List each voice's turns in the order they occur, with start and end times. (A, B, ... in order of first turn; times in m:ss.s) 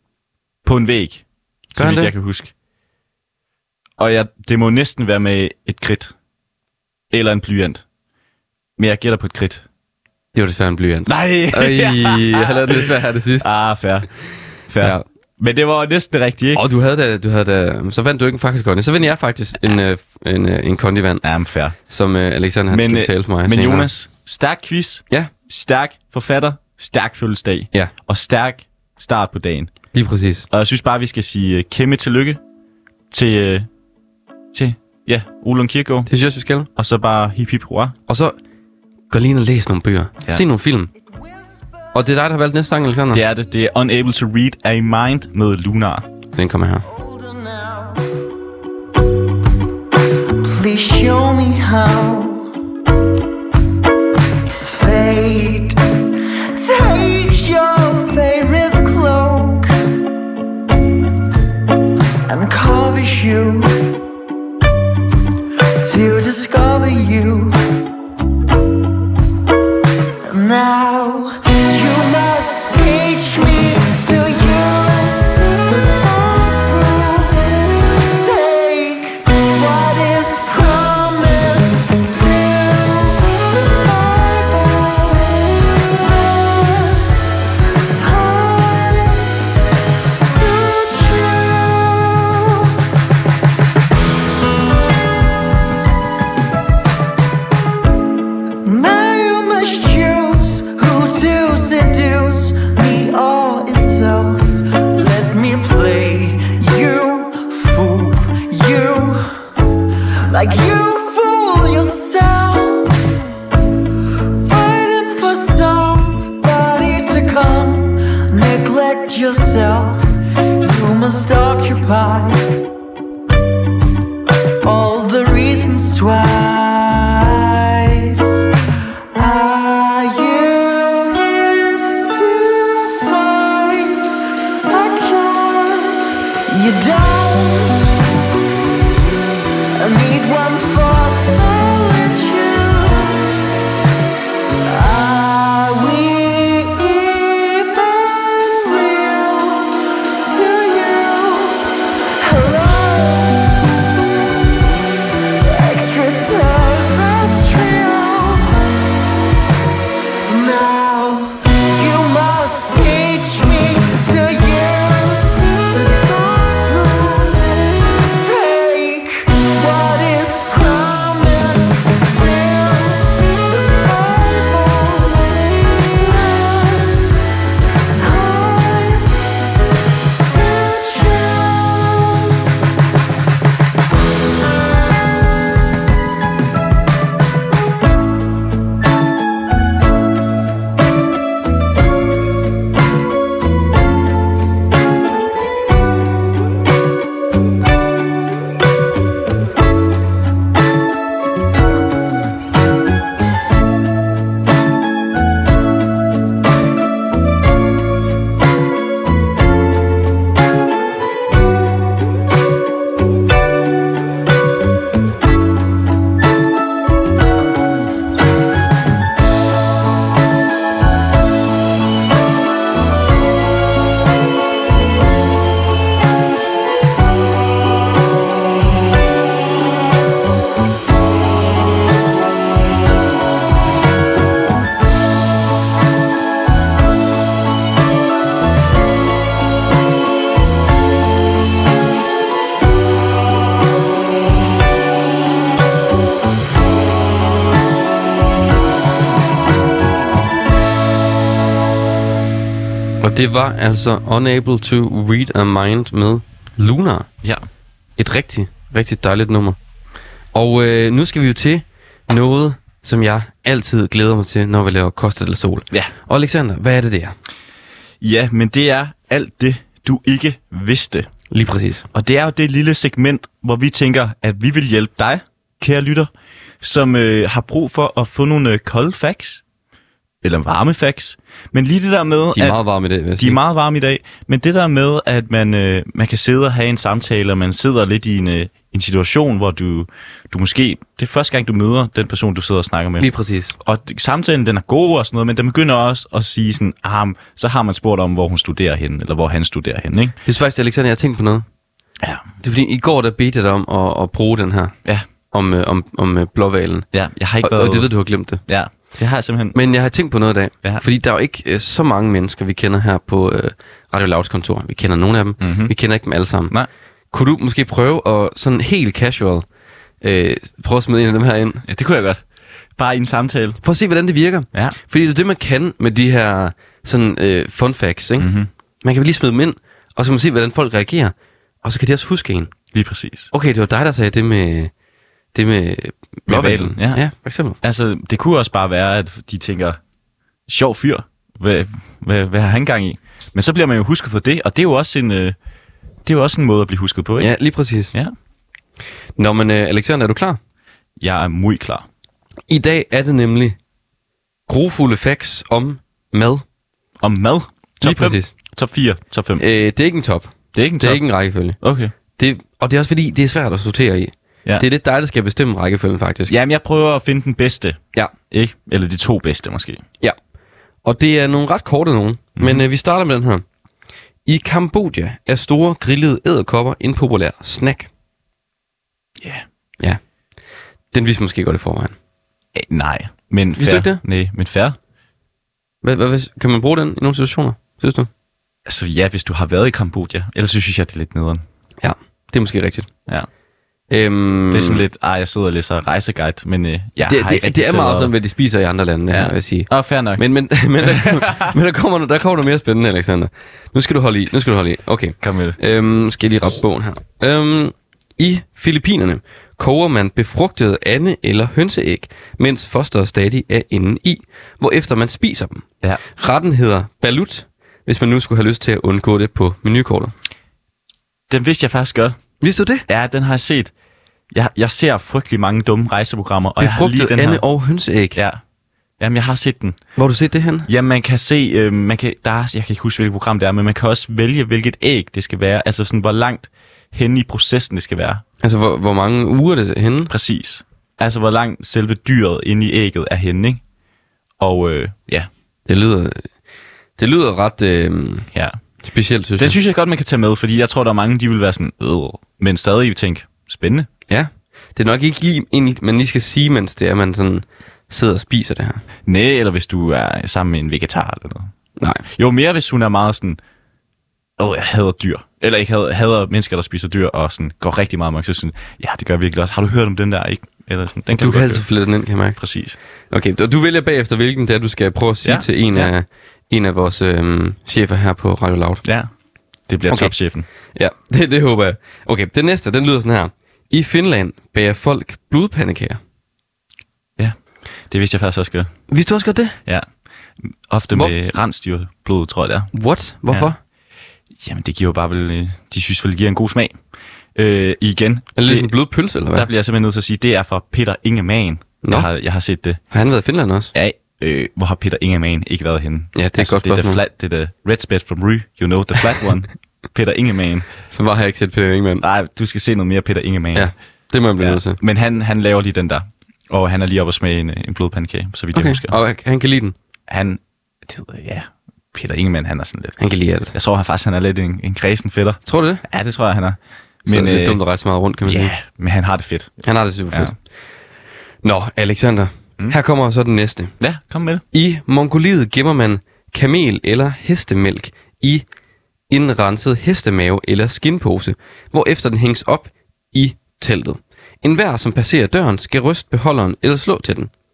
0:00.6-0:02.5 A
0:01.8-0:02.1 B
0:04.0-0:06.1 A
0:07.1-0:07.8 A
0:08.8-0:09.6 A
0:10.4-0:13.5 B
0:11.1-0:14.1 A
0:14.7-0:16.6 A
0:16.5-0:21.2 B
0:21.2-0:21.8 A
0:21.9-0:23.9 B
0:22.7-0:29.7 A
0:29.9-0:30.5 B
0:30.5-0:32.4 A
0:33.1-0:33.7 A
0:34.5-0:36.1 A
0:36.1-0:36.7 B
0:36.8-0:38.0 A
0:38.1-0:38.4 B
0:39.1-0:40.9 B
0:41.9-0:43.2 B
0:43.1-0:46.1 A
0:46.4-0:46.8 B
0:47.0-0:48.0 C
0:50.3-0:52.5 C
0:54.6-0:55.8 C
0:56.5-0:59.8 C
1:02.3-1:03.8 C
1:05.8-1:07.6 C
1:10.2-1:29.3 C
1:30.1-1:32.7 C
1:38.6-1:49.5 C
1:50.3-1:53.1 C
1:54.4-2:02.5 C
2:04.6-2:08.5 C
2:09.1-2:18.0 C
2:19.7-2:23.4 C
2:24.6-2:33.6 C
2:35.4-2:38.7 C
2:40.2-2:57.3 C
2:57.9-2:59.3 C
3:00.0-3:02.3 C
4:13.0-4:17.1 B
4:18.0-4:19.6 B
4:20.3-4:27.2 B
4:28.0-4:31.1 A
4:31.3-4:31.8 B
4:31.9-4:36.1 A
4:36.6-4:39.4 A
4:40.2-4:42.6 A
4:42.3-4:43.4 B
4:43.2-5:00.2 A
4:53.0-4:53.6 B
5:00.3-5:01.5 B
5:02.4-5:04.8 B
5:05.3-5:06.9 B
5:06.9-5:07.9 A
5:07.4-5:08.4 B
5:08.5-5:09.6 A
5:09.5-5:16.5 B
5:15.4-5:15.7 A
5:17.1-5:19.4 B
5:20.0-5:21.6 B
5:21.7-5:22.2 A
5:22.8-5:23.6 A
5:23.6-5:28.3 B
5:28.2-5:28.5 A
5:28.8-5:32.5 B
5:32.7-5:33.3 A
5:33.3-5:34.7 B
5:35.3-5:37.6 B
5:36.3-5:37.0 A
5:37.6-5:39.8 A
5:40.5-5:45.4 A
5:46.0-5:47.3 A
5:47.2-5:47.9 B
5:49.2-5:50.4 B
5:51.0-5:51.9 A
5:52.5-5:53.6 B
5:54.5-5:56.4 B
5:57.0-5:59.4 A
5:57.8-5:58.3 B
5:59.4-6:01.6 B
6:00.5-6:01.0 A
6:01.6-6:01.9 A
6:02.2-6:06.3 B
6:06.3-6:09.8 A
6:10.8-6:13.4 B
6:12.4-6:12.6 A
6:14.3-6:17.9 B
6:19.2-6:19.4 A
6:20.9-6:22.0 B
6:22.6-6:24.8 A
6:23.6-6:24.0 B
6:25.8-6:28.1 B
6:28.7-6:31.4 A
6:31.8-6:32.9 B
6:33.9-6:34.8 B
6:34.5-6:38.1 A
6:37.0-6:55.6 B
6:39.1-6:40.2 A
6:40.8-6:41.6 A
6:45.2-6:45.6 A
6:56.2-7:00.1 B
7:01.3-7:02.2 A
7:02.4-7:02.8 B
7:02.9-7:03.7 A
7:04.3-7:07.4 A
7:06.6-7:08.2 B
7:08.2-7:08.4 A
7:09.0-7:09.8 A
7:10.0-7:10.7 B
7:10.7-7:18.2 A
7:18.4-7:20.1 B
7:20.1-7:23.6 A
7:24.4-7:25.3 A
7:25.7-7:26.3 B
7:27.0-7:28.3 B
7:28.8-7:29.6 B
7:29.4-7:33.9 A
7:34.1-7:38.8 B
7:39.1-7:41.5 A
7:41.8-7:42.0 B
7:42.1-7:43.4 A
7:44.4-7:51.7 A
7:51.1-7:52.4 B
7:52.4-7:52.8 A
7:53.1-7:58.8 B
7:55.2-7:55.9 A
7:58.8-7:59.1 A
7:59.7-8:00.5 A
7:59.9-8:00.1 B
8:00.8-8:06.0 B
8:07.9-8:08.7 A
8:08.9-8:09.6 B
8:10.4-8:12.7 A
8:12.7-8:13.6 B
8:14.4-8:16.8 A
8:17.4-8:18.7 A
8:18.4-8:19.5 B
8:19.3-8:22.8 A
8:22.9-8:23.7 B
8:23.7-8:30.7 A
8:26.2-8:27.0 B
8:30.9-8:32.0 B
8:32.0-8:33.7 A
8:33.6-8:34.8 B
8:34.4-8:39.0 A
8:38.5-8:39.8 B
8:40.1-8:43.0 A
8:43.0-8:43.5 B
8:43.5-8:47.6 A
8:45.5-8:45.8 B
8:47.1-8:48.5 B
8:48.2-8:49.6 A
8:49.6-8:50.4 B
8:51.4-8:53.7 B
8:53.8-8:54.4 A
8:54.5-8:58.4 B
8:59.1-9:07.3 B